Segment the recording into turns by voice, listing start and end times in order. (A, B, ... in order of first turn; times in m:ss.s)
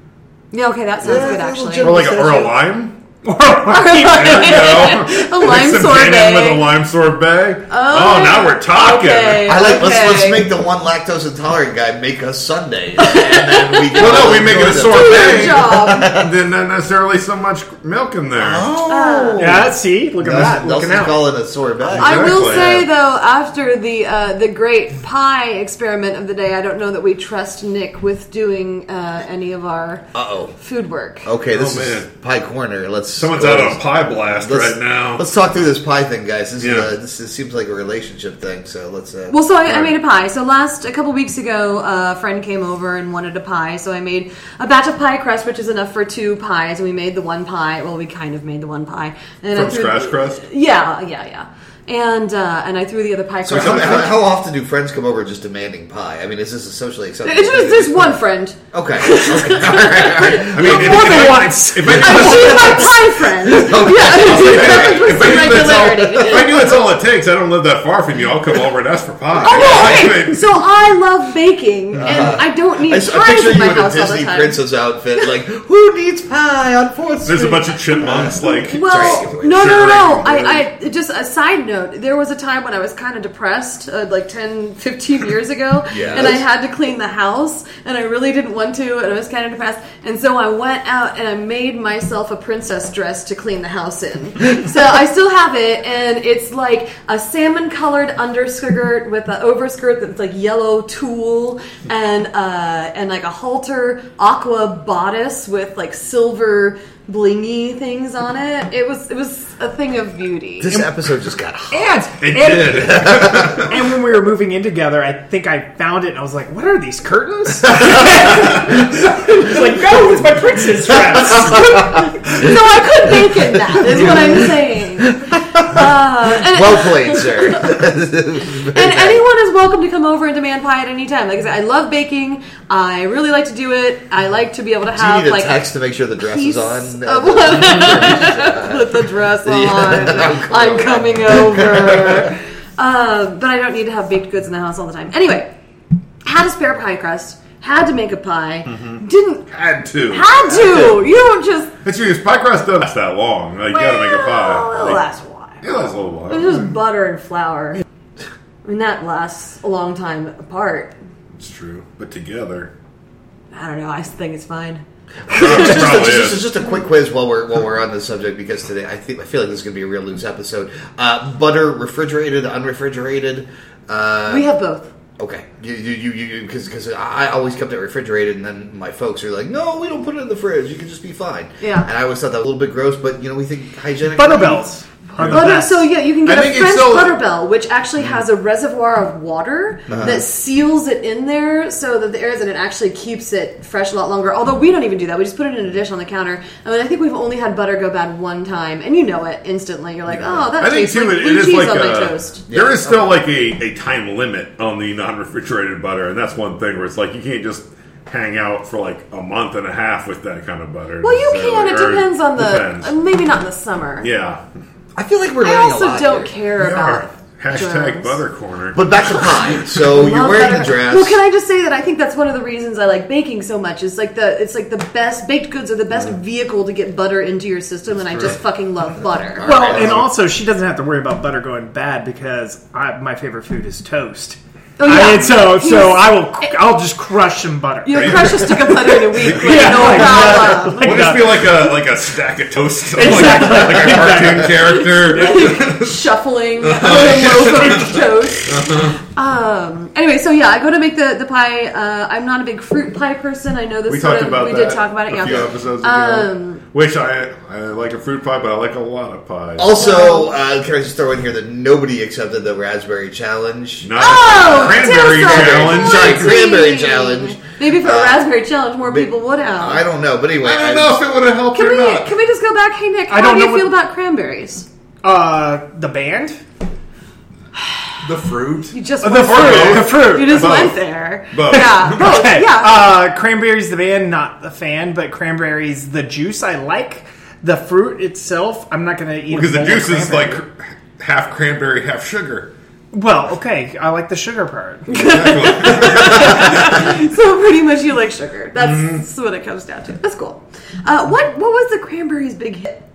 0:00.5-0:01.9 A
0:01.0-0:02.5 B
0:01.8-0:03.0 C
0:03.2-0:05.0 D
0:03.6-0:06.7 A
0:04.1-0:09.5 C
0:07.7-0:10.4 A
0:09.4-0:16.3 B
0:13.0-0:16.1 A
0:13.9-0:18.7 C
0:18.4-0:22.9 B
0:18.9-0:19.5 A
0:19.4-0:21.2 D
0:21.8-0:22.8 C
0:22.0-0:30.1 A
0:30.1-0:30.5 B
0:30.6-0:31.3 A
0:31.2-0:40.0 B
0:31.5-0:32.1 C
0:33.2-0:35.2 C
0:36.6-0:36.9 C
0:39.3-0:54.2 A
0:49.5-0:50.4 C
0:53.4-0:58.2 B
0:53.5-0:54.0 C
0:57.2-1:00.7 A
0:58.7-1:01.3 B
1:00.5-1:02.9 C
1:00.5-1:03.7 D
1:01.9-1:06.8 A
1:02.1-1:06.9 B
1:03.8-1:10.4 C
1:09.4-1:14.6 A
1:09.4-1:10.1 B
1:11.9-1:12.4 C
1:12.0-1:19.9 B
1:17.2-1:20.6 C
1:18.7-1:50.8 A
1:25.9-1:26.4 B
1:50.6-1:53.6 B
1:51.7-2:02.1 D
1:52.2-1:53.7 C
1:57.7-1:58.7 B
2:00.9-2:02.5 B
2:01.4-2:07.8 A
2:03.2-2:09.2 B
2:08.6-2:15.5 A
2:14.9-2:22.3 B
2:16.2-2:25.5 A
2:26.2-2:29.5 A
2:28.7-2:29.0 C
2:29.5-2:30.3 C
2:30.1-2:31.7 A
2:31.8-2:35.0 C
2:33.7-2:37.8 A
2:35.6-2:36.7 C
2:38.6-2:40.9 A
2:41.4-2:42.7 C
2:43.5-2:46.0 A
2:45.3-2:54.5 B
2:45.3-2:46.5 C
2:54.3-2:54.9 A
2:55.2-3:04.7 B
3:01.6-3:01.9 A
3:04.2-3:05.8 D
3:05.1-3:05.5 C
3:05.2-3:22.4 A
3:06.2-3:07.2 C
3:09.9-3:10.2 C
3:09.9-3:10.2 B
3:20.2-3:20.5 B
3:20.6-3:32.9 C
3:22.5-3:23.1 B
3:31.0-3:34.1 A
3:34.0-3:34.4 C
3:35.0-3:36.3 B
3:35.4-3:38.2 A
3:36.6-3:39.2 C
3:38.7-3:41.2 B
3:39.3-3:49.7 A
3:49.3-3:50.0 B
3:49.4-4:01.5 D
3:49.7-3:50.0 C
3:54.8-3:56.5 A
3:57.8-4:01.1 A
3:57.9-3:58.5 C
3:59.2-4:06.0 C
4:02.9-4:04.6 D
4:03.7-4:04.4 B
4:04.7-4:16.6 A
4:06.6-4:09.0 C
4:13.9-4:19.7 C
4:19.6-4:28.2 B
4:19.7-4:20.3 A
4:23.8-4:26.4 C
4:24.0-4:29.8 A
4:28.8-4:31.0 B
4:30.4-4:32.1 C
4:31.5-4:34.6 A
4:33.1-4:33.7 D
4:35.0-4:36.4 D
4:38.0-4:40.8 C
4:38.7-4:42.9 A
4:39.0-4:40.6 D
4:41.3-4:42.1 C
4:41.5-4:50.4 D
4:49.3-4:52.5 C
4:52.9-4:55.1 D
4:54.9-5:02.8 A
4:54.9-4:56.7 C
4:56.3-4:56.7 D
4:58.6-4:59.0 C